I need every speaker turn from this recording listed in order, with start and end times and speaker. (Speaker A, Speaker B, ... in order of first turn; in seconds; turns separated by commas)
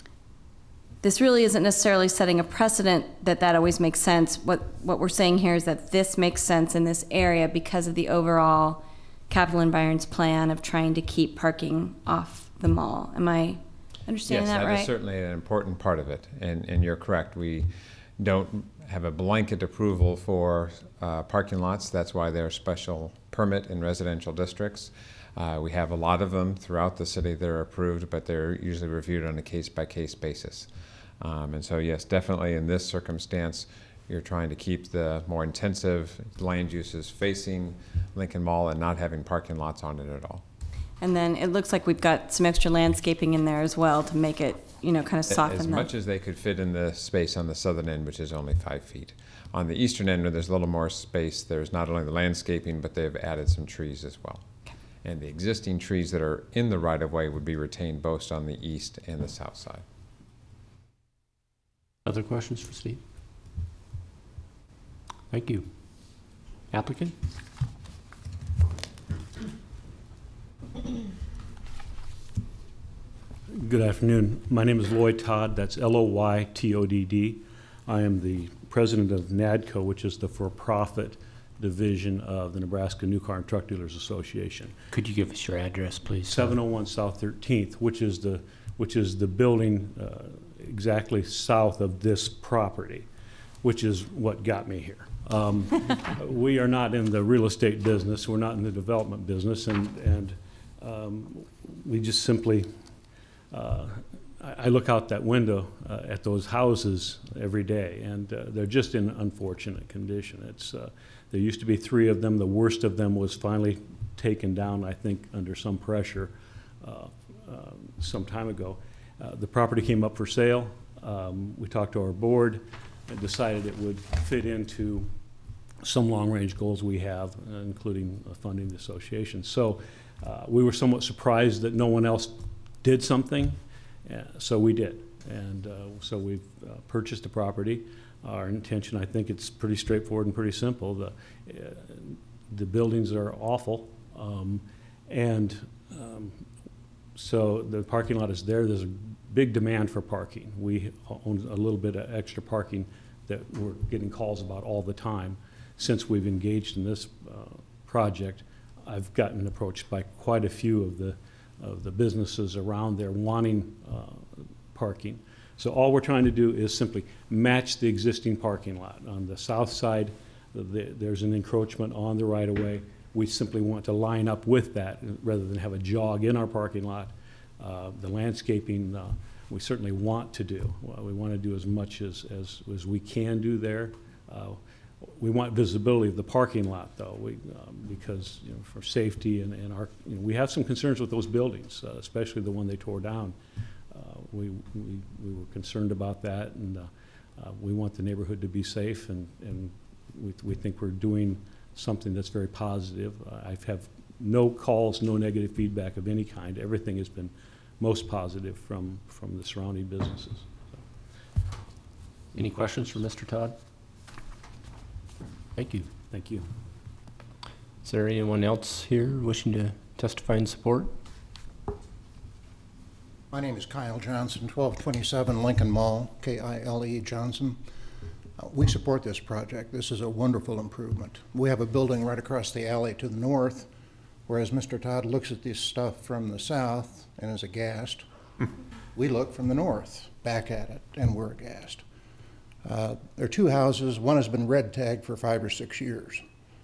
Speaker A: 1.0-14.9, Speaker B: 14.3-30.7, Speaker B: 31.2-40.4, Speaker A: 41.0-45.9, Speaker B: 45.3-54.5, Speaker B: 55.0-59.8, Speaker C: 62.0-63.0, Speaker C: 65.3-67.2, Speaker D: 73.5-84.8, Speaker C: 84.9-86.6, Speaker D: 86.3-93.1, Speaker D: 93.6-102.7, Speaker D: 103.5-125.1, Speaker D: 125.8-146.5, Speaker D: 147.2-193.4, Speaker D: 193.9-210.8, Speaker D: 212.3-213.0, Speaker C: 212.3-213.6, Speaker C: 215.6-215.9, Speaker D: 216.1-216.5, Speaker C: 217.8-220.9, Speaker E: 223.3-227.6, Speaker E: 228.4-233.7, Speaker E: 234.3-238.1, Speaker E: 238.9-241.8, Speaker E: 242.6-246.2